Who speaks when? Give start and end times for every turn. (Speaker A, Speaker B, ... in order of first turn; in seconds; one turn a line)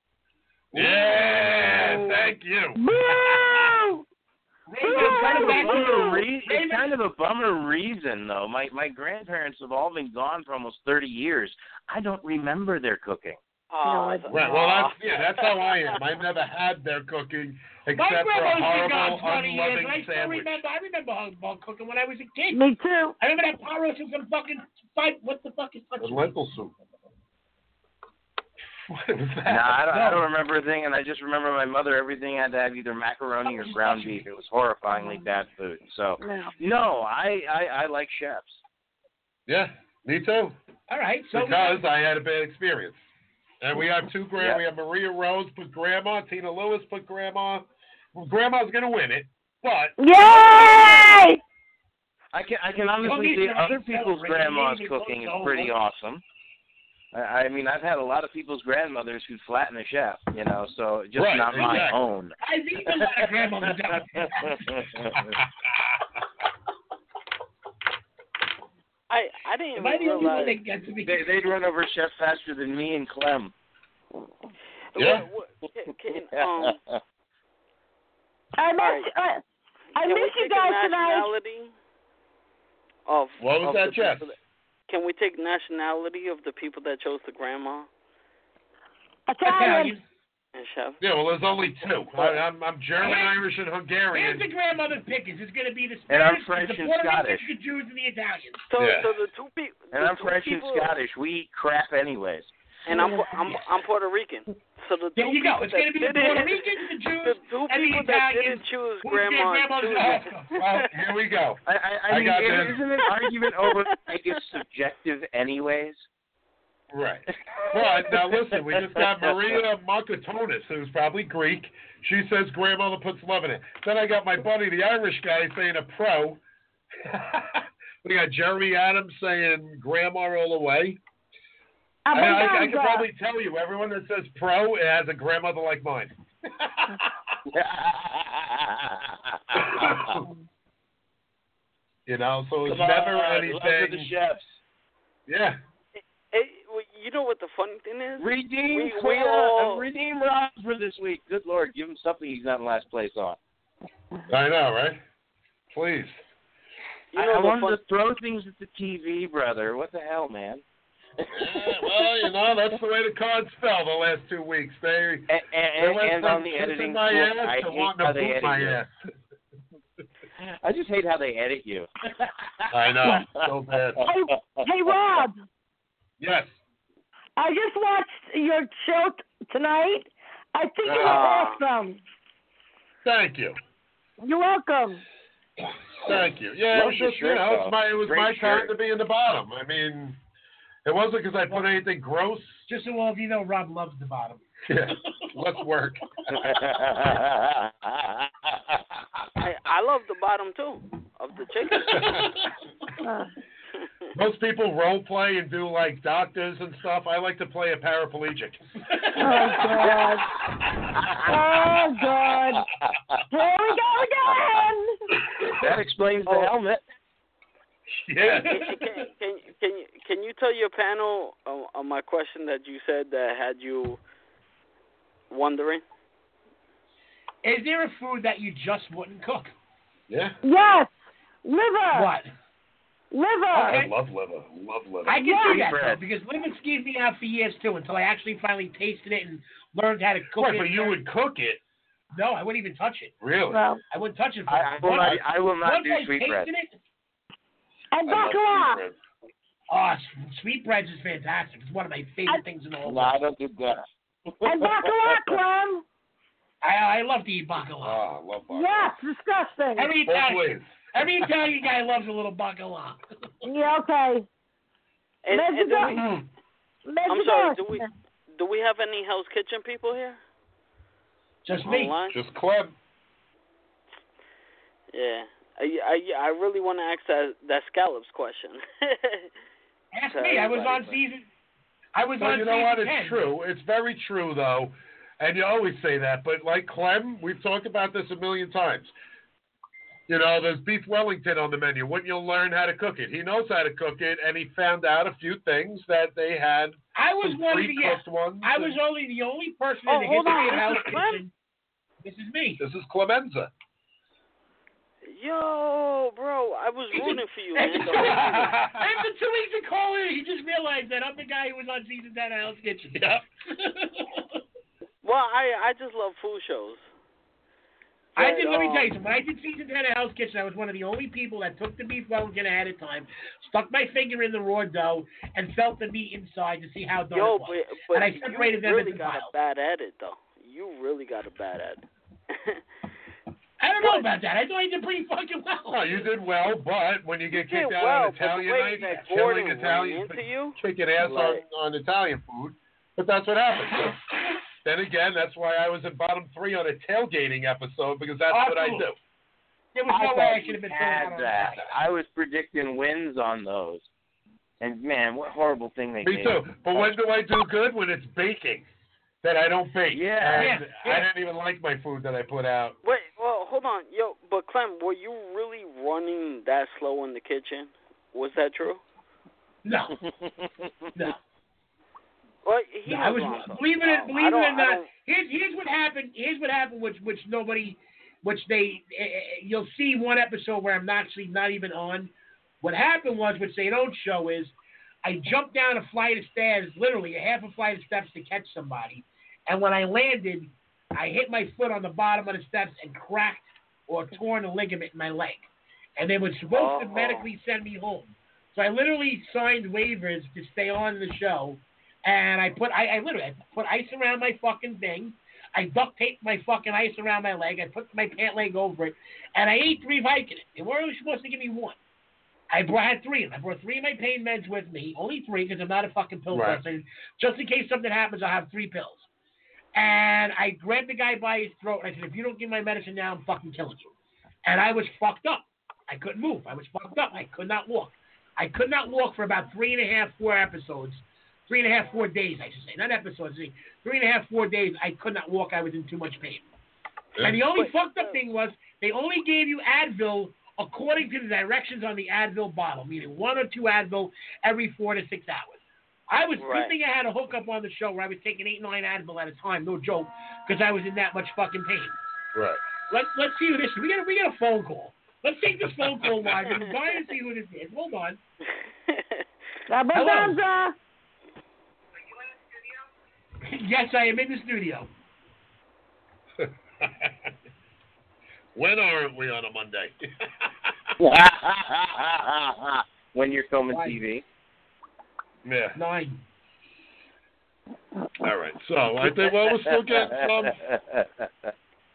Speaker A: 0.7-3.7
Speaker B: 0.8-2.2
Speaker C: 2.8-4.0
Speaker D: 4.7-6.9
Speaker C: 4.8-6.2
Speaker B: 4.9-13.4
Speaker E: 13.7-16.0
Speaker C: 13.8-14.3
Speaker A: 14.3-20.6
Speaker D: 17.9-22.6
Speaker C: 22.5-23.1
Speaker D: 23.2-26.3
Speaker A: 26.0-26.8
Speaker A: 28.9-29.9
Speaker B: 29.4-38.6
Speaker D: 29.9-30.2
Speaker D: 33.5-34.2
Speaker C: 34.9-35.3
Speaker C: 36.2-36.5
Speaker A: 39.5-40.5
Speaker D: 40.9-41.8
Speaker A: 41.3-43.0
Speaker A: 43.6-50.9
Speaker C: 50.0-51.4
Speaker B: 52.3-56.2
Speaker D: 53.0-55.7
Speaker B: 57.1-62.3
Speaker A: 61.1-62.0
Speaker D: 61.6-61.9
Speaker D: 62.4-64.6
Speaker B: 62.9-65.4
Speaker A: 65.2-65.9
Speaker E: 69.1-70.6
Speaker D: 69.8-71.3
Speaker B: 71.0-73.5
Speaker E: 74.9-76.8
Speaker A: 75.0-75.2
Speaker B: 76.1-77.0
Speaker C: 78.6-79.4
Speaker E: 78.8-79.1
Speaker C: 80.0-81.3
Speaker E: 80.0-81.7
Speaker E: 83.1-84.3
Speaker A: 83.4-84.3
Speaker E: 84.9-87.9
Speaker C: 89.3-90.0
Speaker D: 89.4-90.0
Speaker E: 90.5-91.0
Speaker A: 91.0-94.5
Speaker D: 93.0-93.3
Speaker D: 94.1-98.6
Speaker B: 96.1-97.5
Speaker E: 98.7-101.0
Speaker A: 98.8-99.1
Speaker B: 99.9-102.5
Speaker E: 102.9-110.9
Speaker C: 103.0-103.2
Speaker D: 105.2-110.5
Speaker A: 110.5-112.8
Speaker B: 111.7-116.0
Speaker E: 113.0-114.3
Speaker A: 116.9-126.4
Speaker B: 117.8-119.3
Speaker A: 127.0-131.0
Speaker C: 132.1-133.1
Speaker A: 132.1-137.4
Speaker B: 137.5-140.1
Speaker A: 139.5-140.3
Speaker A: 142.1-144.1
Speaker B: 142.6-144.6
Speaker A: 145.3-145.6
Speaker E: 145.9-149.8
Speaker B: 148.2-153.4
Speaker A: 154.3-155.0
Speaker A: 155.7-156.2
Speaker E: 157.1-157.8
Speaker B: 157.1-160.6
Speaker B: 161.2-162.1
Speaker A: 161.3-168.9
Speaker B: 165.3-168.8
Speaker B: 170.4-175.2
Speaker A: 172.7-174.1
Speaker C: 174.1-175.4
Speaker A: 176.2-176.6
Speaker C: 177.3-182.0
Speaker A: 180.8-181.2
Speaker E: 181.0-181.6
Speaker A: 183.0-183.6
Speaker C: 184.2-185.0
Speaker A: 186.0-190.2
Speaker B: 186.7-188.7
Speaker A: 190.8-192.6
Speaker D: 192.7-194.4
Speaker A: 194.7-196.0
Speaker B: 196.3-198.8
Speaker E: 199.4-202.1
Speaker A: 201.9-202.3
Speaker C: 203.0-203.3
Speaker A: 204.1-208.6
Speaker D: 208.9-209.3
Speaker A: 209.1-210.7
Speaker C: 209.2-210.3
Speaker B: 210.9-211.3
Speaker C: 211.2-212.6
Speaker B: 212.6-213.2
Speaker C: 213.3-215.0
Speaker B: 215.4-216.8
Speaker A: 217.9-218.6
Speaker E: 218.5-224.0
Speaker E: 225.3-225.8
Speaker D: 227.4-229.5
Speaker A: 230.1-230.4
Speaker C: 230.4-232.1
Speaker D: 231.9-232.3
Speaker C: 233.1-233.8
Speaker D: 233.5-233.9
Speaker A: 233.7-235.2
Speaker D: 235.1-241.0
Speaker C: 235.2-235.6
Speaker B: 235.5-236.0
Speaker A: 240.3-241.6
Speaker D: 242.1-243.1
Speaker A: 243.2-243.6
Speaker C: 243.5-243.8
Speaker D: 243.9-246.7
Speaker B: 244.5-246.5
Speaker C: 247.9-248.8
Speaker A: 248.1-249.0
Speaker D: 249.7-253.2
Speaker B: 252.8-253.8
Speaker B: 254.4-255.4
Speaker C: 254.4-255.8
Speaker D: 256.6-258.0
Speaker A: 257.8-259.0
Speaker C: 258.5-259.9
Speaker D: 259.8-263.0
Speaker A: 260.0-260.8
Speaker C: 263.4-264.2
Speaker E: 265.2-266.0
Speaker C: 265.3-266.0
Speaker C: 266.8-267.9
Speaker E: 267.1-270.2
Speaker D: 271.4-271.9
Speaker E: 271.6-272.2
Speaker A: 272.1-272.7
Speaker E: 274.9-279.3
Speaker D: 279.9-281.3
Speaker E: 280.1-281.0
Speaker D: 281.9-283.2
Speaker A: 282.2-288.9
Speaker A: 290.1-298.8
Speaker D: 296.9-301.3
Speaker E: 299.9-301.2
Speaker D: 302.0-302.6
Speaker A: 302.6-303.5
Speaker E: 305.0-308.5
Speaker D: 306.9-314.2
Speaker A: 307.9-309.0
Speaker A: 312.9-313.2
Speaker E: 315.0-316.8
Speaker E: 318.1-318.9
Speaker D: 318.1-329.3
Speaker E: 327.1-332.6
Speaker D: 333.6-336.0
Speaker E: 333.8-334.1
Speaker A: 335.7-349.0
Speaker E: 337.3-341.4
Speaker D: 348.3-348.9
Speaker D: 349.7-351.7
Speaker B: 349.9-353.9
Speaker B: 354.6-357.0
Speaker A: 356.0-358.7
Speaker A: 359.2-362.8
Speaker B: 359.9-360.6
Speaker D: 360.4-361.1
Speaker E: 362.8-368.8
Speaker D: 369.6-370.0
Speaker B: 370.0-370.7
Speaker E: 372.4-374.9
Speaker D: 372.9-382.1
Speaker D: 382.6-411.8
Speaker E: 396.5-397.2
Speaker D: 412.5-419.1
Speaker A: 416.3-416.6
Speaker D: 419.7-423.9
Speaker D: 424.4-436.5
Speaker D: 437.2-452.0
Speaker E: 437.5-438.2
Speaker E: 446.4-446.7
Speaker A: 452.3-452.6
Speaker D: 452.9-458.2
Speaker A: 455.8-456.4
Speaker E: 458.9-459.2
Speaker C: 459.7-460.7
Speaker D: 459.9-460.4
Speaker D: 463.4-464.9
Speaker A: 466.4-467.3
Speaker A: 468.5-470.9
Speaker B: 471.0-474.2
Speaker D: 473.7-474.0
Speaker A: 475.4-475.8
Speaker D: 475.7-476.2
Speaker A: 478.2-480.6
Speaker B: 479.0-481.2